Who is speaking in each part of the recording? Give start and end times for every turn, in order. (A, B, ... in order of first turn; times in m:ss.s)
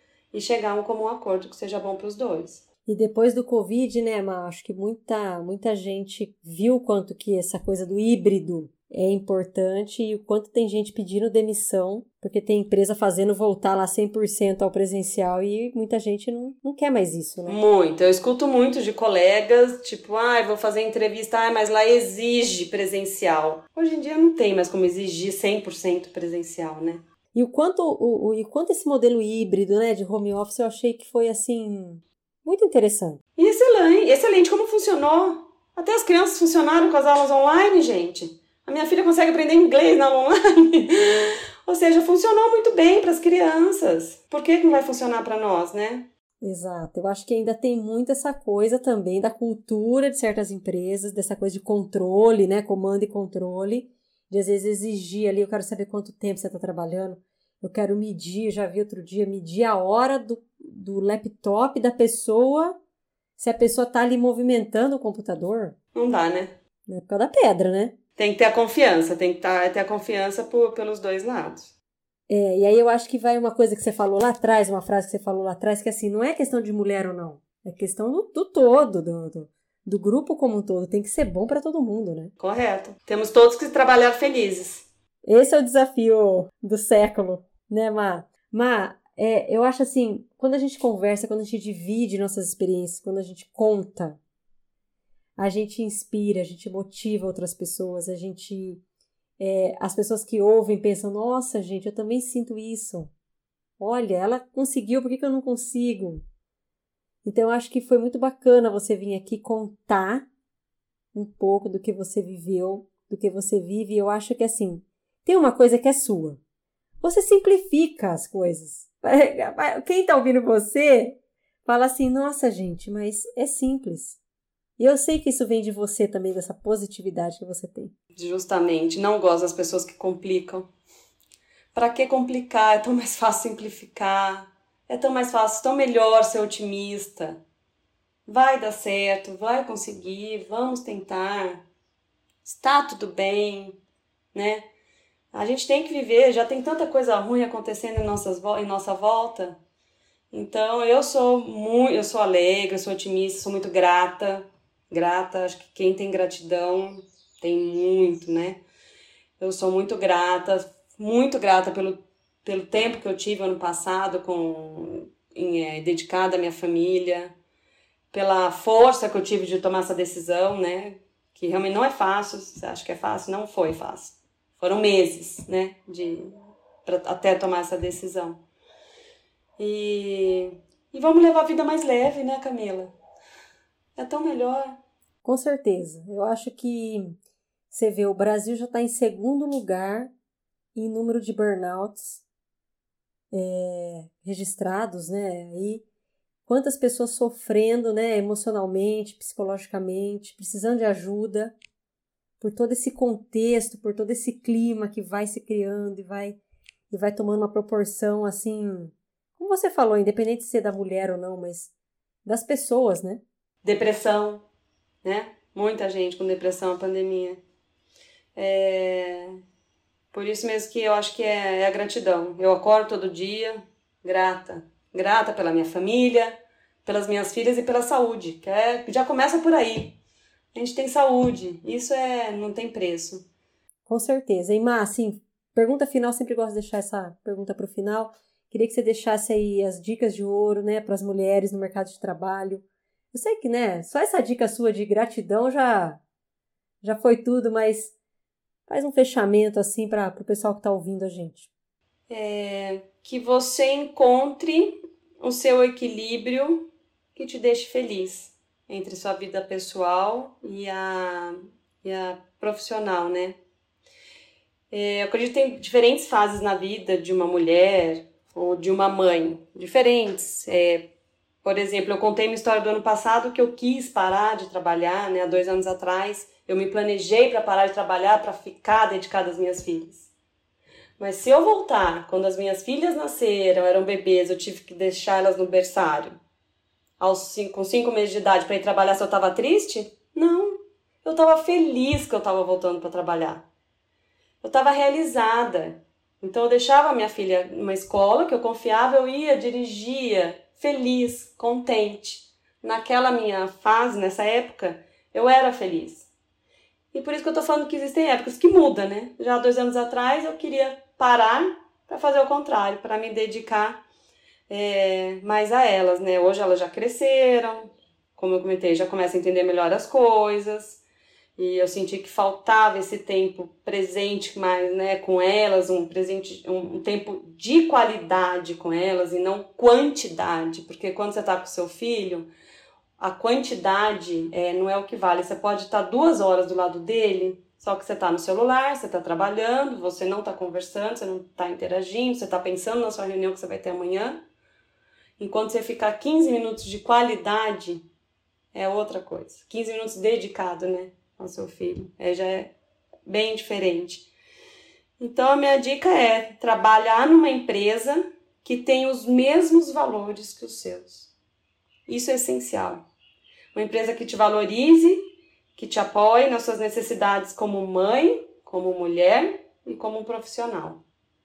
0:00.3-0:02.6 A
0:02.9-0:17.6 B
0:17.4-0:27.0 A
0:27.3-0:33.2 B
0:33.4-0:46.1 A
0:46.4-1:02.8 B
1:03.4-1:05.8 B
1:05.9-1:06.6 A
1:06.9-1:08.0 B
1:08.2-1:11.7 A
1:12.3-1:22.3 B
1:22.4-1:24.9 A
1:25.2-1:34.2 B
1:35.4-1:38.8 B
1:39.4-1:43.1 B
1:43.8-1:46.2 B
1:47.2-1:50.3 B
1:51.1-1:56.4 B
1:57.0-2:04.2 B
2:04.8-2:07.9 B
2:08.1-2:10.7 A
2:11.7-2:17.4 A
2:18.3-2:21.6 A
2:22.4-2:23.8 A
2:24.3-2:24.7 A
2:25.3-2:29.6 A
2:30.3-2:38.6 A
2:39.4-2:47.3 A
2:48.1-2:56.3 A
2:56.8-2:58.4 A
2:59.6-3:02.9 A
3:04.0-3:04.8 A
3:05.2-3:07.2 B
3:07.7-3:10.1 B
3:10.7-3:12.2 B
3:13.3-3:15.8 B
3:16.4-3:21.6 B
3:22.4-3:26.4 B
3:26.9-3:31.7 B
3:32.2-3:33.2 B
3:33.6-3:34.4 A
3:35.0-3:37.4 A
3:38.3-3:39.3 A
3:40.1-3:50.0 A
3:50.5-3:53.2 A
3:53.9-4:06.0 B
4:06.8-4:07.9 B
4:08.7-4:11.5 B
4:12.1-4:23.4 A
4:24.7-4:40.1 A
4:41.0-4:46.2 A
4:47.0-4:53.4 A
4:54.4-5:06.1 A
5:06.9-5:13.8 A
5:14.5-5:20.8 A
5:21.4-5:32.3 A
5:33.0-5:44.2 A
5:45.2-5:47.9 A
5:48.5-5:52.5 A
5:53.0-5:54.1 A
5:55.0-6:01.1 A
6:01.9-6:02.9 A
6:03.5-6:10.8 A